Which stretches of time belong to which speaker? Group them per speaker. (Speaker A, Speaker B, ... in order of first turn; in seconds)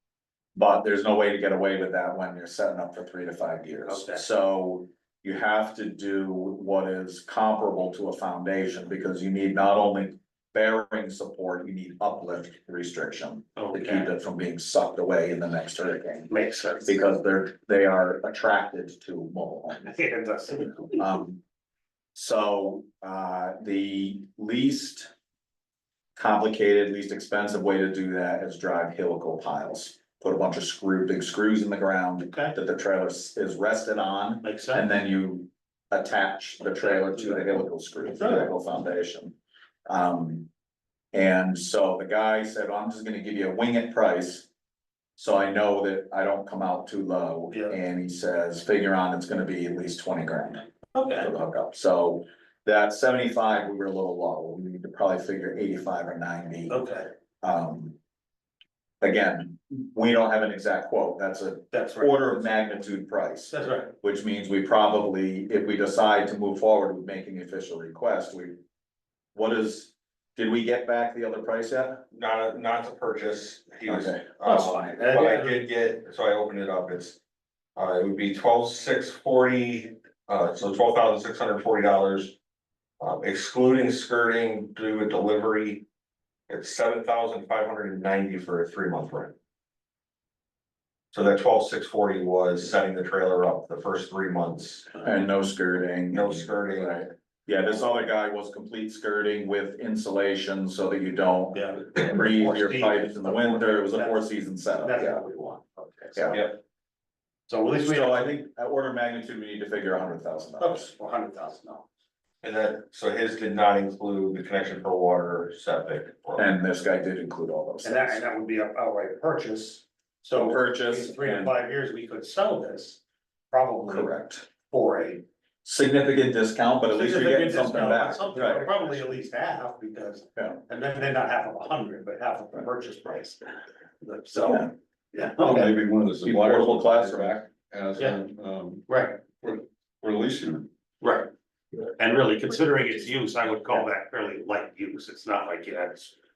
Speaker A: 0.5-16.3, 16.8-19.9, 21.0-21.4, 22.1-25.1, 26.1-39.3, 39.9-40.5, 41.1-44.5, 45.2-50.6, 51.1-56.8, 57.4-58.0, 59.0-68.6, 69.3-72.0, 73.8-74.2, 95.0-105.2, 106.1-106.5, 107.8-110.9, 116.4-118.2, 120.3-121.5, 123.9-124.4, 125.6-129.0, 136.2-137.4
Speaker B: 3.9-4.2, 13.6-14.1, 16.3-17.0, 19.7-21.1, 32.2-32.5, 34.4-35.0, 36.7-38.5, 47.5-47.8, 50.9-51.3, 56.7-57.1, 61.7-62.5, 63.5-63.9, 74.4-75.6, 101.5-104.2, 104.8-106.5, 107.5-108.3, 110.6-111.8, 117.8-125.2, 126.9-135.8, 138.9-139.2, 141.0-141.3, 142.0-146.1
Speaker C: 72.1-77.2, 77.8-82.3, 83.0-85.8, 86.5-89.3, 91.1-95.0, 96.1-97.1, 106.3-106.6, 112.4-116.5
Speaker D: 135.4-138.8, 139.4-140.7